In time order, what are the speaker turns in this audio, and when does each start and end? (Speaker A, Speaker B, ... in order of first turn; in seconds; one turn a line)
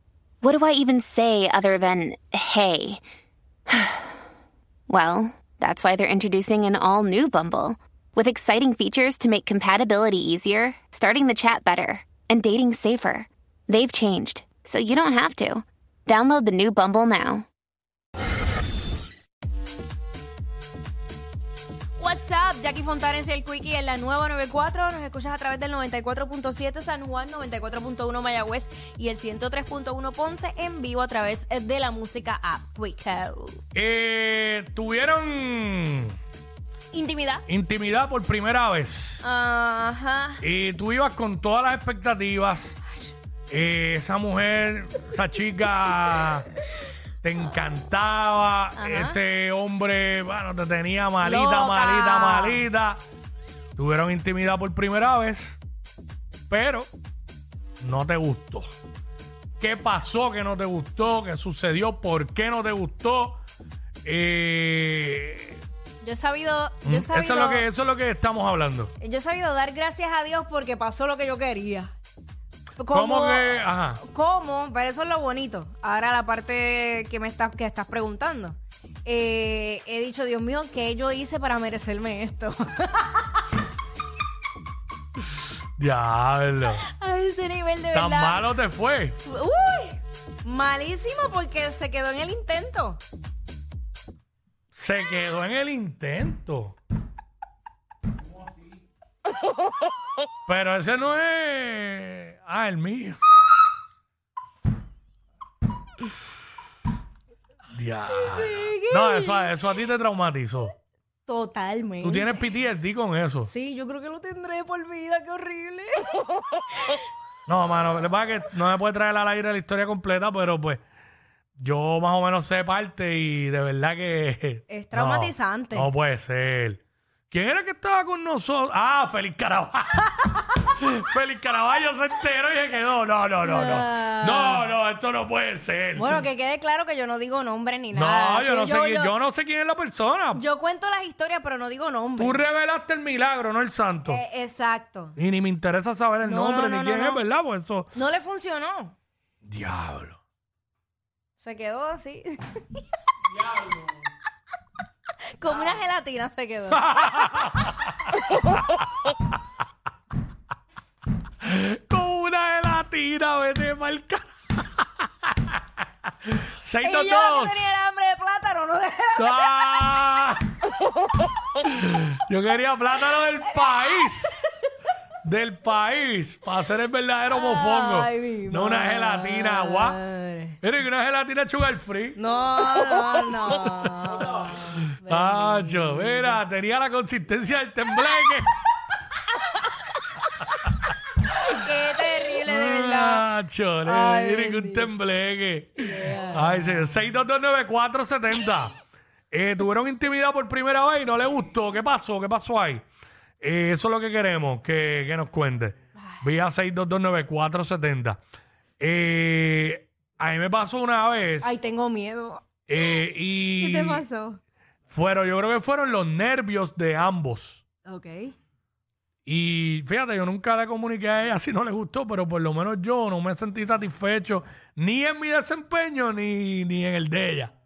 Speaker A: 0.4-3.0
Speaker A: 3.7-4.1
Speaker A: 4.9-17.4
Speaker B: 22.0-33.6
Speaker C: 33.7-36.1
Speaker B: 36.9-37.5
Speaker C: 37.5-39.2
Speaker B: 39.2-40.4
Speaker C: 40.4-42.8
Speaker C: 43.5-46.5
Speaker C: 47.2-53.0
Speaker B: 48.8-49.2
Speaker B: 51.2-52.6
Speaker C: 53.8-55.6
Speaker C: 56.5-56.9
Speaker C: 57.8-58.7
Speaker C: 59.6-63.4
Speaker C: 64.0-65.6
Speaker B: 66.0-67.7
Speaker C: 66.8-68.9
Speaker B: 69.0-71.9
Speaker B: 72.8-83.4
Speaker C: 72.9-74.0
Speaker C: 85.8-86.8
Speaker B: 86.7-88.5
Speaker C: 87.9-89.2
Speaker B: 89.2-93.0
Speaker C: 94.7-96.8
Speaker C: 100.5-103.2
Speaker C: 107.7-110.7
Speaker B: 108.2-109.5
Speaker B: 111.3-112.4
Speaker C: 112.0-113.5
Speaker B: 113.4-116.2
Speaker C: 117.5-120.8
Speaker C: 121.6-126.8
Speaker B: 124.7-125.9
Speaker C: 127.3-130.1
Speaker C: 130.7-136.2
Speaker B: 133.4-134.6
Speaker B: 135.9-139.1
Speaker C: 137.9-140.4
Speaker B: 140.3-142.6
Speaker C: 142.2-144.2
Speaker B: 144.0-145.2
Speaker C: 145.2-147.9
Speaker B: 146.2-147.2
Speaker B: 147.9-148.9
Speaker C: 149.4-150.2
Speaker B: 151.4-152.4
Speaker B: 155.3-156.9
Speaker C: 156.7-157.8
Speaker C: 161.4-165.6
Speaker C: 166.2-167.8
Speaker B: 166.8-169.6
Speaker C: 169.2-170.4
Speaker C: 171.6-174.4
Speaker B: 173.6-174.1
Speaker C: 175.2-180.0
Speaker B: 177.3-180.6
Speaker C: 180.6-182.2
Speaker B: 182.2-186.4
Speaker C: 184.4-188.5
Speaker B: 191.4-193.2
Speaker C: 192.4-198.7
Speaker B: 193.8-194.9
Speaker B: 195.8-196.7
Speaker C: 199.3-202.8
Speaker C: 203.4-208.2
Speaker B: 206.0-206.2
Speaker C: 208.8-211.5
Speaker B: 211.4-212.4
Speaker C: 212.7-214.0
Speaker B: 213.6-214.4
Speaker C: 214.9-217.6
Speaker B: 217.8-218.3
Speaker C: 219.2-227.5